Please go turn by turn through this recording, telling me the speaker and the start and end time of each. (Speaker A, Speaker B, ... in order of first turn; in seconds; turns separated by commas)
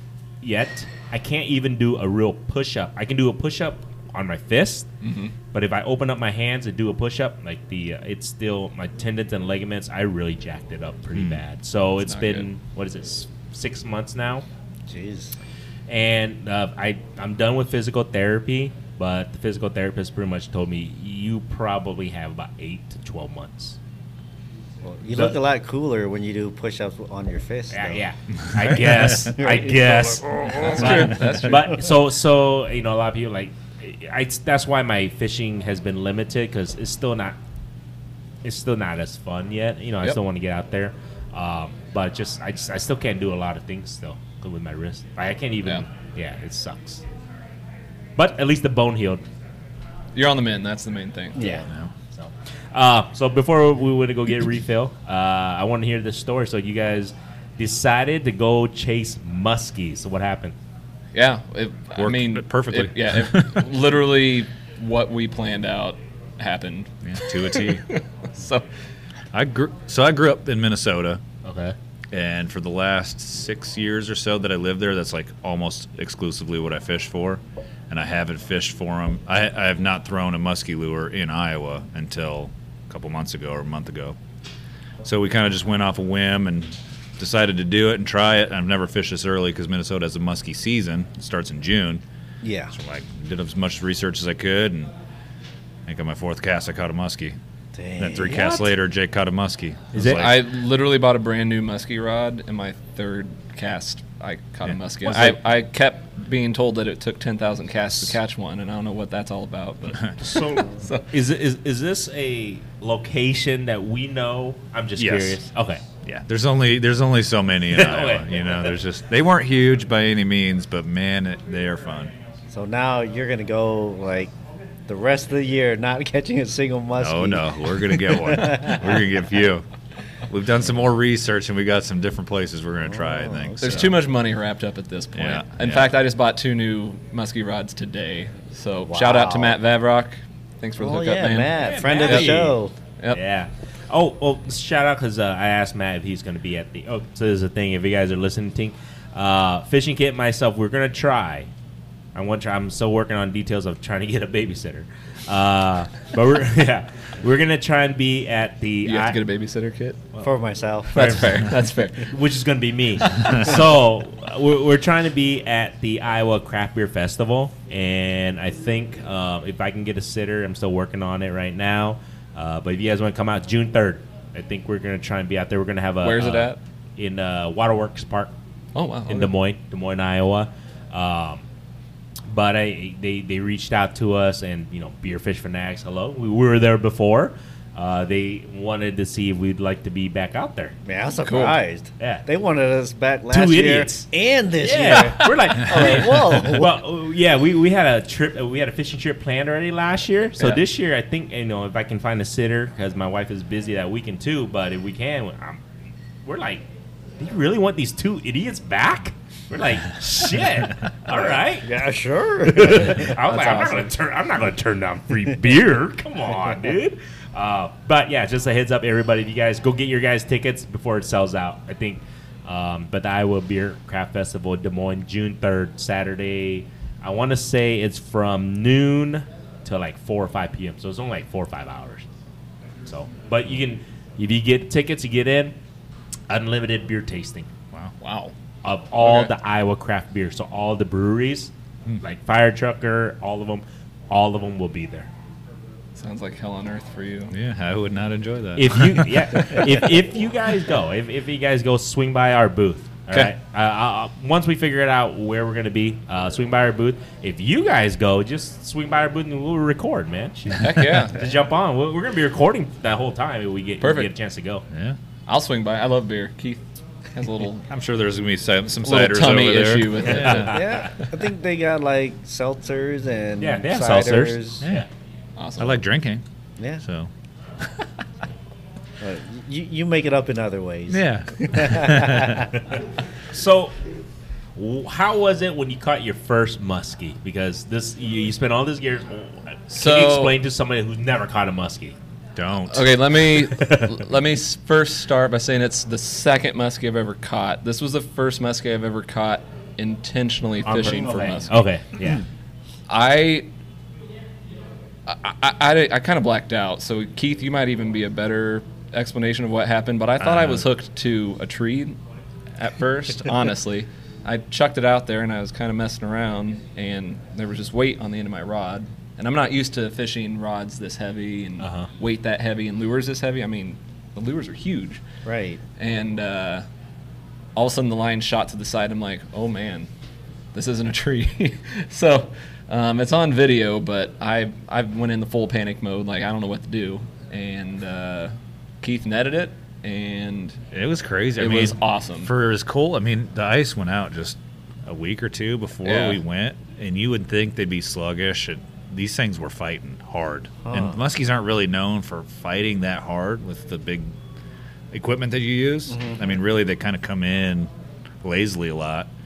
Speaker A: 0.4-4.9, Speaker B: 5.0-5.3, Speaker A: 5.5-14.4, Speaker C: 11.1-11.4, Speaker B: 12.0-12.5, Speaker D: 14.9-15.3, Speaker A: 15.9-23.8, Speaker D: 24.8-28.1, Speaker A: 25.1-25.4, Speaker A: 27.7-37.4, Speaker D: 28.6-31.6, Speaker B: 30.4-31.8, Speaker A: 38.4-47.0, Speaker A: 48.2-49.2, Speaker B: 50.1-51.5, Speaker D: 51.3-51.7, Speaker A: 51.4-60.5, Speaker C: 51.6-51.9, Speaker B: 61.1-68.7, Speaker C: 62.0-63.7, Speaker C: 67.0-67.8, Speaker C: 69.3-71.2, Speaker A: 71.4-71.7, Speaker C: 72.1-84.2, Speaker C: 85.0-92.0, Speaker D: 92.4-92.7, Speaker C: 92.7-94.9, Speaker C: 95.9-97.3, Speaker D: 97.7-98.7, Speaker C: 98.0-100.4, Speaker A: 99.9-100.2, Speaker B: 100.0-111.0, Speaker A: 105.0-105.4, Speaker A: 110.2-115.8, Speaker C: 115.0-115.4, Speaker C: 116.0-122.1, Speaker A: 117.7-118.5, Speaker D: 122.5-124.3, Speaker D: 124.9-129.0, Speaker C: 127.0-129.6, Speaker C: 130.3-134.0, Speaker D: 132.9-133.9, Speaker B: 133.6-143.2, Speaker C: 135.1-135.9, Speaker D: 138.9-139.6, Speaker D: 140.8-142.7, Speaker A: 141.6-142.6, Speaker A: 143.1-151.5, Speaker A: 152.1-159.2, Speaker B: 158.8-160.0, Speaker D: 160.2-161.3, Speaker B: 160.9-162.1, Speaker A: 160.9-178.3, Speaker B: 176.0-176.6, Speaker B: 178.7-179.3, Speaker A: 179.1-181.4, Speaker A: 182.3-190.7, Speaker D: 190.8-196.7, Speaker B: 191.2-191.6, Speaker A: 192.0-192.2, Speaker A: 193.3-194.1, Speaker A: 194.6-205.6, Speaker B: 195.2-196.3, Speaker A: 206.2-206.6, Speaker A: 207.2-211.7, Speaker D: 211.1-213.2, Speaker A: 212.4-232.1, Speaker B: 213.3-213.8, Speaker A: 232.8-235.5, Speaker A: 236.3-237.5, Speaker B: 238.0-238.3, Speaker A: 238.6-245.1, Speaker B: 239.0-239.3, Speaker B: 245.9-247.3, Speaker C: 247.3-249.2, Speaker A: 248.6-264.6, Speaker B: 249.3-249.7, Speaker B: 260.6-261.2, Speaker B: 263.8-264.1, Speaker C: 264.7-265.0, Speaker B: 265.3-267.6, Speaker C: 267.7-270.6, Speaker B: 268.8-270.6, Speaker A: 270.0-270.9, Speaker D: 270.4-274.6, Speaker A: 273.4-274.9, Speaker B: 275.4-275.8, Speaker C: 275.6-276.2, Speaker C: 276.8-277.1, Speaker D: 279.0-282.5, Speaker C: 280.9-282.5, Speaker A: 283.3-283.8, Speaker A: 284.6-291.9, Speaker B: 289.7-290.4, Speaker C: 292.4-292.9, Speaker B: 292.7-301.5, Speaker A: 293.5-293.9, Speaker A: 300.6-302.2, Speaker B: 302.9-303.5, Speaker B: 305.1-312.0, Speaker C: 310.2-310.7, Speaker B: 312.6-325.0, Speaker A: 321.6-321.9, Speaker D: 325.2-325.6, Speaker B: 325.8-326.6, Speaker B: 327.6-329.9, Speaker B: 330.5-340.6, Speaker C: 340.7-354.1, Speaker B: 341.4-342.3, Speaker B: 345.8-346.2, Speaker D: 350.6-351.0, Speaker C: 354.9-357.7, Speaker D: 355.9-356.2, Speaker C: 358.2-359.1